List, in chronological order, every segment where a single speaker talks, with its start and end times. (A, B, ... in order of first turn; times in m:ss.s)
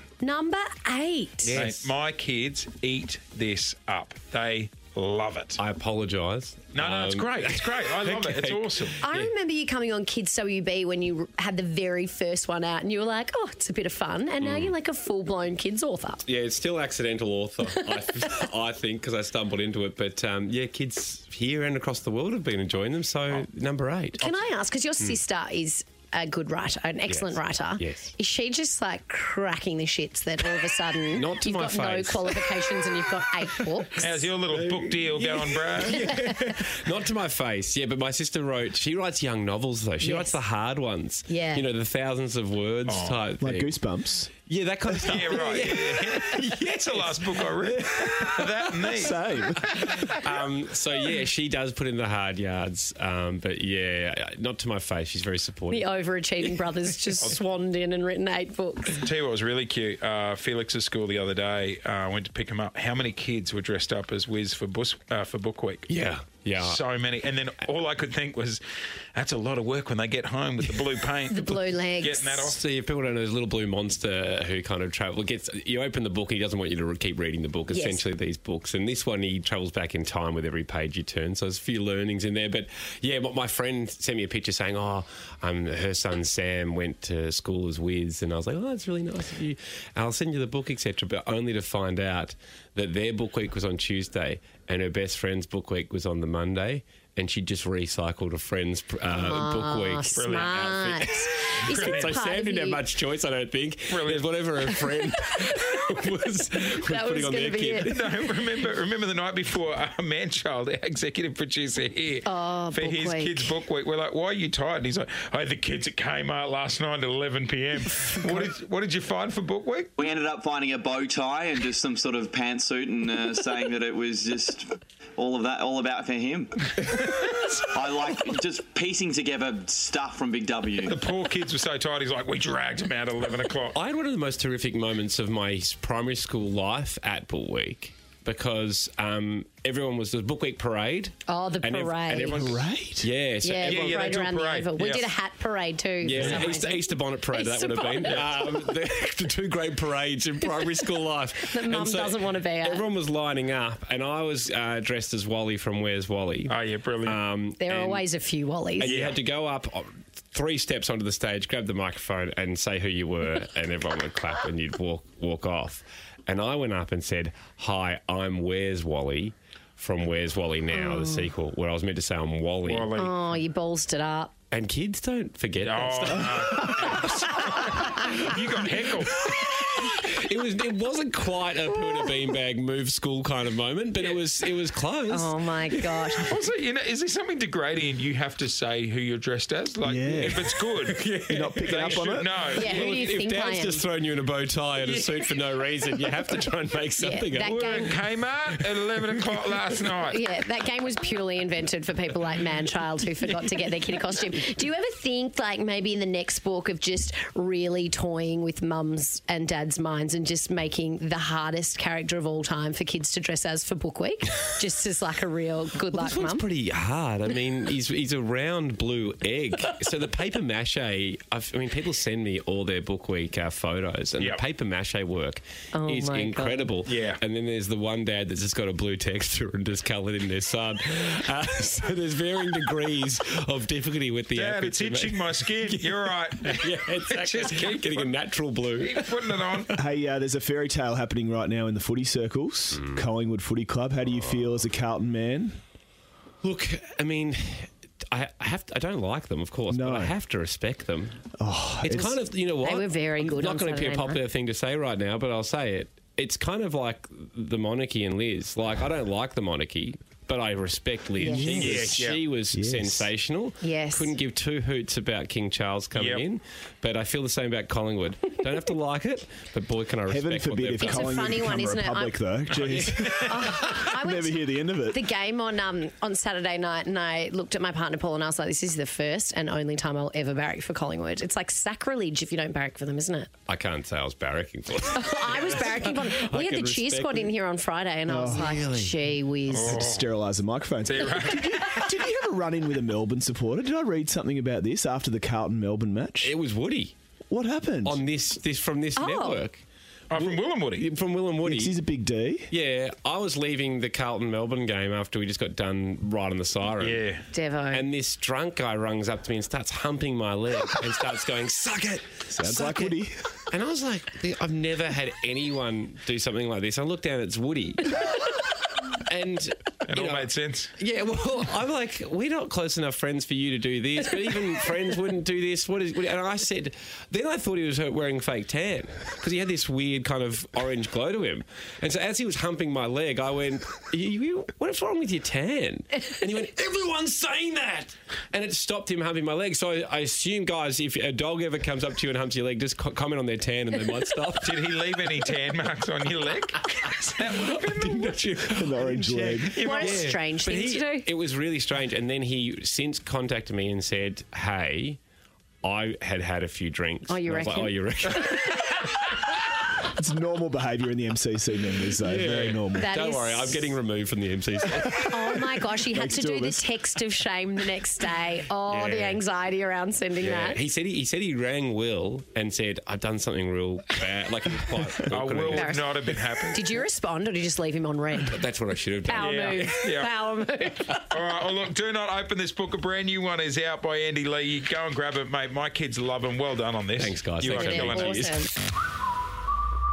0:00.2-0:01.6 A
0:01.4-0:01.9 B
0:01.5-0:05.6 C
0:05.6-0:09.3 B
0:06.7-0:09.0 C
0:09.0-0:16.2 A
0:14.4-0:14.7 B
0:16.2-0:24.4 B
0:17.8-0:18.5 A
0:24.2-0:34.3 A
0:27.1-0:28.1 B
0:31.1-0:33.0 B
0:34.0-0:36.0 C
0:34.5-0:43.7 B
0:35.9-0:36.1 A
0:40.0-0:40.4 A
0:41.3-0:41.7 A
0:42.8-0:43.2 C
0:43.4-0:44.3 D
0:44.4-0:49.1 B
0:44.9-0:50.1 C
0:47.9-0:49.7 D
0:49.7-0:55.9 B
0:55.7-0:59.0 A
0:59.0-1:05.9 C
1:05.9-1:06.8 B
1:06.6-1:08.6 C
1:09.1-1:12.6 C
1:11.3-1:12.4 A
1:12.4-1:40.3 B
1:17.7-1:18.0 A
1:39.1-1:42.8 A
1:40.1-1:42.2 C
1:41.1-1:48.1 B
1:43.9-1:44.3 C
1:46.8-1:48.1 A
1:47.8-2:00.0 C
1:52.2-1:53.6 A
2:00.0-2:06.8 E
2:06.8-2:07.6 C
2:07.7-2:11.0 E
2:10.8-2:13.8 C
2:13.7-2:24.2 B
2:21.2-2:22.5 A
2:22.3-2:23.1 D
2:23.4-2:28.7 A
2:23.6-2:25.1 C
2:26.0-2:38.1 B
2:31.4-2:32.8 A
2:36.5-2:37.2 C
2:37.6-2:38.9 A
2:38.8-2:52.9 B
2:38.8-2:39.2 C
2:50.7-2:51.3 A
2:52.6-2:53.2 C
2:53.0-2:54.3 A
2:54.5-2:58.3 B
2:55.6-2:59.3 C
2:59.2-3:06.2 B
3:05.1-3:06.3 A
3:06.2-3:13.0 C
3:09.8-3:10.5 D
3:10.2-3:19.6 B
3:11.3-3:12.3 D
3:12.5-3:13.9 A
3:14.8-3:15.2 C
3:17.0-3:17.9 A
3:17.4-3:20.2 C
3:20.1-3:36.4 A
3:35.9-3:59.7 B
3:44.2-3:44.4 C
3:45.7-3:46.7 A
3:46.8-3:47.2 C
3:54.3-3:58.2 C
3:58.7-3:59.8 C
3:59.8-4:05.6 D
4:06.4-4:11.2 B
4:09.7-4:10.2 D
4:11.4-4:12.2 D
4:11.8-4:31.3 B
4:12.6-4:14.2 A
4:21.2-4:21.7 A
4:21.3-4:21.9 D
4:21.5-4:22.3 C
4:22.5-4:23.1 D
4:23.6-4:24.2 A
4:25.9-4:26.2 C
4:30.1-4:35.0 D
4:30.8-4:32.2 A
4:32.7-4:33.9 B
4:32.8-4:43.3 A
4:43.5-4:47.3 B
4:44.9-4:49.8 A
4:48.1-4:48.5 D
4:48.2-4:49.0 B
4:49.5-4:50.1 C
4:49.6-4:56.3 D
4:50.8-4:51.8 C
4:56.2-4:56.9 B
4:57.3-4:58.0 D
4:57.8-4:59.6 B
4:59.0-4:59.4 A
5:00.1-5:00.8 C
5:00.2-5:01.7 B
5:01.4-5:02.5 D
5:02.5-5:07.0 B
5:06.8-5:07.2 C
5:07.3-5:07.8 A
5:07.7-5:18.5 B
5:12.3-5:13.3 D
5:19.0-5:44.6 B
5:19.8-5:20.7 C
5:44.4-5:47.6 C
5:46.8-5:55.0 B
5:48.5-5:49.6 D
5:49.6-5:50.1 C
5:49.6-5:51.1 A
5:55.6-5:59.2 B
5:57.1-5:58.5 A
5:59.8-6:03.0 D
6:02.0-6:05.4 B
6:02.7-6:03.8 A
6:04.8-6:06.6 D
6:05.1-6:10.6 A
6:08.7-6:09.2 B
6:10.2-6:16.0 B
6:15.1-6:16.8 C
6:15.5-6:15.9 A
6:16.5-6:18.4 A
6:18.2-6:19.8 B
6:19.0-6:21.0 A
6:19.1-6:20.1 C
6:21.1-6:28.3 C
6:27.0-6:28.4 B
6:27.5-6:28.5 A